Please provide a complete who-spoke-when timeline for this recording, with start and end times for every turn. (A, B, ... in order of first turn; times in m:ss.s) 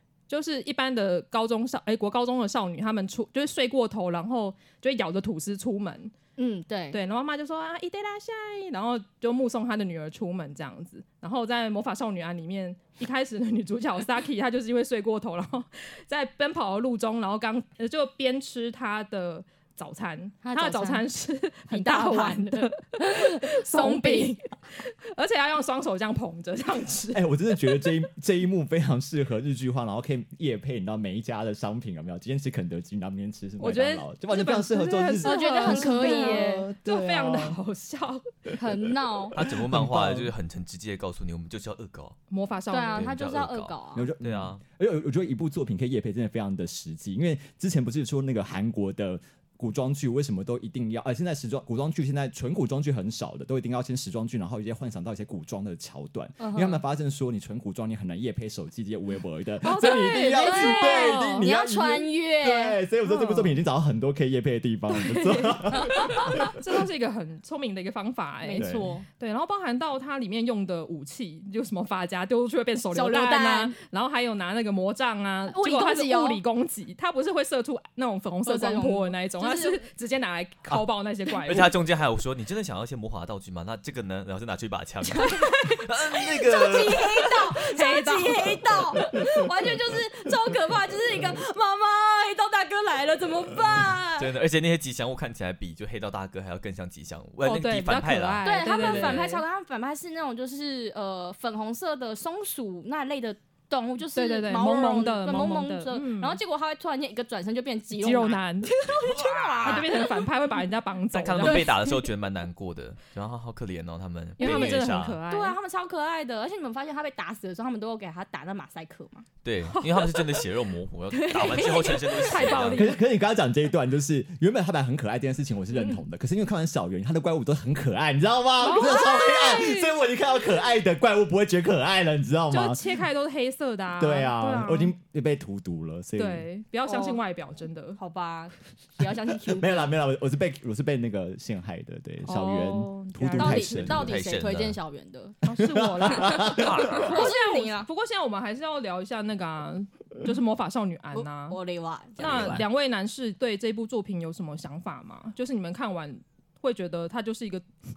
0:00.3-0:06.1 A
0:06.4-0:07.0 B
0:06.9-0:27.3 A
0:20.4-0:21.0 B
0:21.7-0:24.4 B
0:27.1-0:37.6 C
0:33.6-0:38.3 A
0:35.2-0:36.7 B
0:38.6-0:39.4 B
0:39.3-0:42.2 D
0:39.4-0:40.3 C
0:42.3-0:43.1 A
0:42.7-0:44.1 B
0:42.9-0:44.6 D
0:43.9-1:06.6 C
0:56.4-0:56.8 B
0:59.6-1:01.5 A
0:59.8-1:03.5 B
1:04.9-1:21.7 A
1:05.9-1:06.3 B
1:08.4-1:09.1 B
1:08.6-1:08.9 C
1:12.9-1:13.8 B
1:15.5-1:16.4 B
1:18.5-1:19.9 B
1:21.4-1:27.4 D
1:25.1-1:34.3 B
1:27.7-1:28.6 A
1:34.2-1:39.2 D
1:37.4-1:39.4 A
1:38.4-1:50.3 B
1:44.1-1:46.4 A
1:47.9-1:48.8 A
1:48.8-1:49.9 D
1:49.6-1:51.7 A
1:51.1-1:55.2 D
1:51.4-1:52.1 B
1:54.4-1:55.6 A
1:54.4-1:59.3 B
1:59.4-2:03.0 D
2:01.1-2:02.7 B
2:02.3-2:03.0 A
2:02.7-2:12.8 C
2:05.7-2:06.0 B
2:08.6-2:09.9 A
2:12.5-2:14.9 A
2:14.0-2:16.5 C
2:16.2-2:18.0 A
2:16.9-2:17.2 B
2:18.0-2:19.9 B
2:19.4-2:24.2 C
2:22.2-2:24.1 A
2:23.4-2:25.4 B
2:23.9-2:24.8 D
2:25.4-2:31.6 A
2:25.6-2:26.9 C
2:26.1-2:27.9 B
2:26.6-2:27.0 D
2:31.1-2:32.6 B
2:32.2-2:32.7 D
2:32.2-2:37.6 A